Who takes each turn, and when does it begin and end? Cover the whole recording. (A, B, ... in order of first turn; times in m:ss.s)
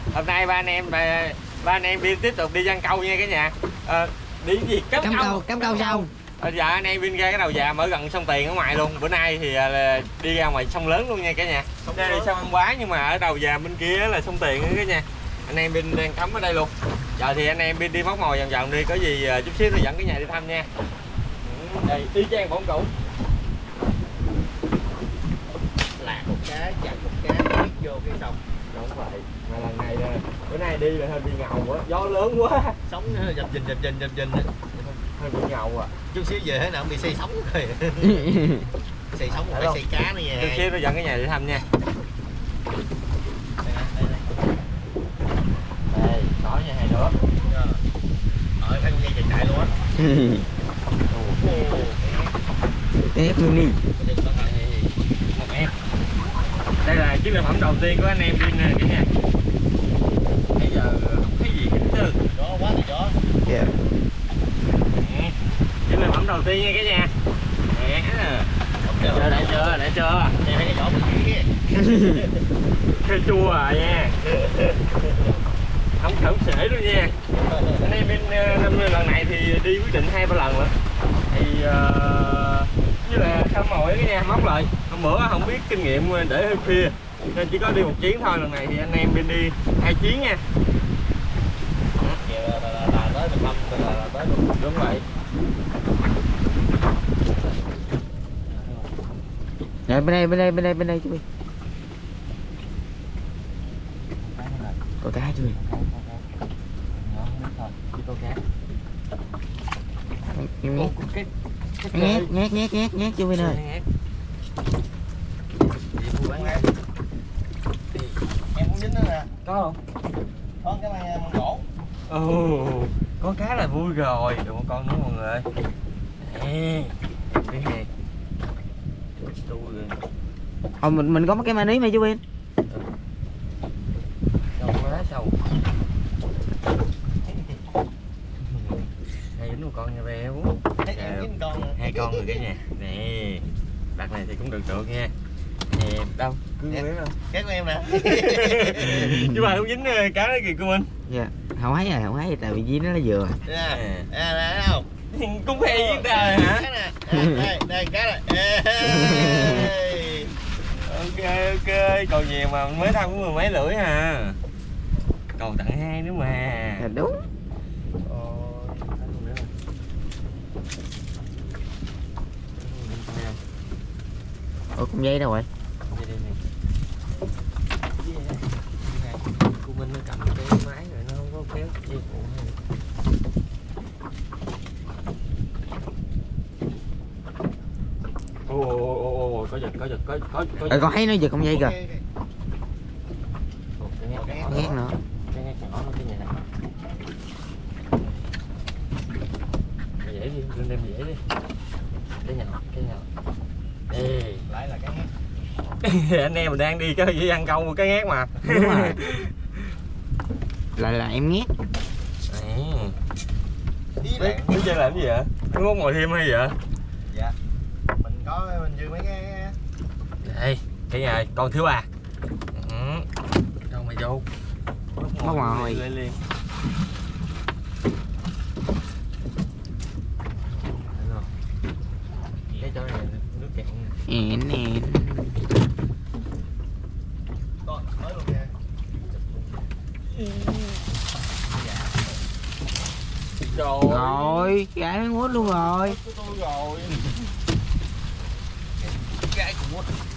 0:00.1-0:20.7 A
0:05.0-0:06.1 B
0:11.8-0:12.3 C
0:21.4-0:22.9 A
0:26.0-0:28.4 C
0:28.7-0:32.8 A
0:32.9-0:34.5 C
0:34.8-0:35.9 A
0:36.1-0:38.4 C
0:38.0-0:38.6 B
0:39.1-0:40.7 C
0:39.4-0:39.8 A
0:40.3-0:41.6 A
0:43.6-0:44.4 C
0:45.9-0:47.2 A
0:47.4-0:47.8 C
0:48.6-0:49.7 C
0:50.0-0:50.4 B
0:51.1-0:51.4 A
0:51.4-0:52.3 C
0:53.1-0:53.8 B
0:54.0-0:54.9 C
0:55.3-0:55.7 A
0:56.8-0:59.1 A
1:00.6-1:02.2 A
1:02.3-1:03.2 C
1:03.4-1:03.7 B
1:04.9-1:05.3 A
1:05.9-1:07.1 A
1:07.7-1:08.5 A
1:08.8-1:09.8 C
1:09.1-1:10.5 A
1:10.4-1:11.5 C
1:11.8-1:12.2 B
1:11.8-1:12.3 A
1:13.0-1:14.1 A
1:16.0-1:17.2 A
1:17.4-1:17.9 C
1:17.8-1:20.7 A
1:21.3-1:30.4 A
1:32.2-1:34.3 C
1:34.1-1:35.0 A
1:38.5-1:38.9 A
1:39.9-1:41.2 B
1:44.2-1:44.8 A
1:45.0-1:45.6 B
1:45.5-1:46.2 A
1:47.0-1:48.4 A
1:50.3-1:50.9 B
1:50.7-1:52.3 A
1:51.9-1:53.6 B
1:53.3-1:53.8 A
1:55.9-1:56.7 A
1:56.3-1:56.6 C
1:58.5-1:59.3 C
1:59.4-1:59.8 A
2:00.6-2:01.6 C
2:02.1-2:05.4 A
2:06.2-2:07.9 A
2:09.4-2:10.0 A
2:10.8-2:12.2 B
2:14.6-2:15.4 A
2:18.5-2:18.8 A
2:19.3-2:25.1 A
2:20.8-2:22.2 C
2:25.7-2:27.2 A
2:26.7-2:29.2 C
2:28.0-2:30.9 A
2:31.1-2:33.4 B
2:33.4-2:34.9 C
2:33.7-2:34.1 A
2:35.1-2:36.7 A
2:35.6-2:40.3 C
2:37.1-2:37.5 B
2:38.8-2:39.7 B
2:40.8-2:44.4 A
2:45.4-2:46.8 A
2:46.8-2:47.2 B
2:48.0-2:49.5 A
2:52.6-2:53.4 A
2:54.7-2:55.5 B
2:55.9-2:56.4 A
2:58.0-3:02.6 A
3:08.5-3:11.0 A
3:10.7-3:11.8 B
3:11.4-3:12.0 C
3:13.8-3:14.8 A
3:14.1-3:14.8 C
3:14.5-3:15.0 B
3:15.3-3:16.4 A
3:20.0-3:21.2 A
3:22.2-3:23.0 A
3:23.9-3:24.4 A
3:24.5-3:25.1 C
3:25.8-3:29.4 A
3:28.4-3:29.0 B
3:30.8-3:31.5 B
3:32.3-3:33.0 A
3:34.0-3:35.0 C
3:34.1-3:36.6 A
3:37.9-3:39.6 C
3:40.2-3:41.9 A
3:42.5-3:43.1 A
3:43.7-3:44.2 A
3:45.0-3:46.2 A
3:45.2-3:45.8 B
3:50.9-3:51.3 A
3:52.5-3:54.0 A
3:54.1-3:55.4 B
3:57.6-3:58.5 C
3:59.1-3:59.6 C
4:00.1-4:00.8 A
4:01.6-4:01.9 C
4:03.4-4:04.5 A
4:03.9-4:06.0 B
4:05.3-4:07.1 A
4:08.8-4:10.0 C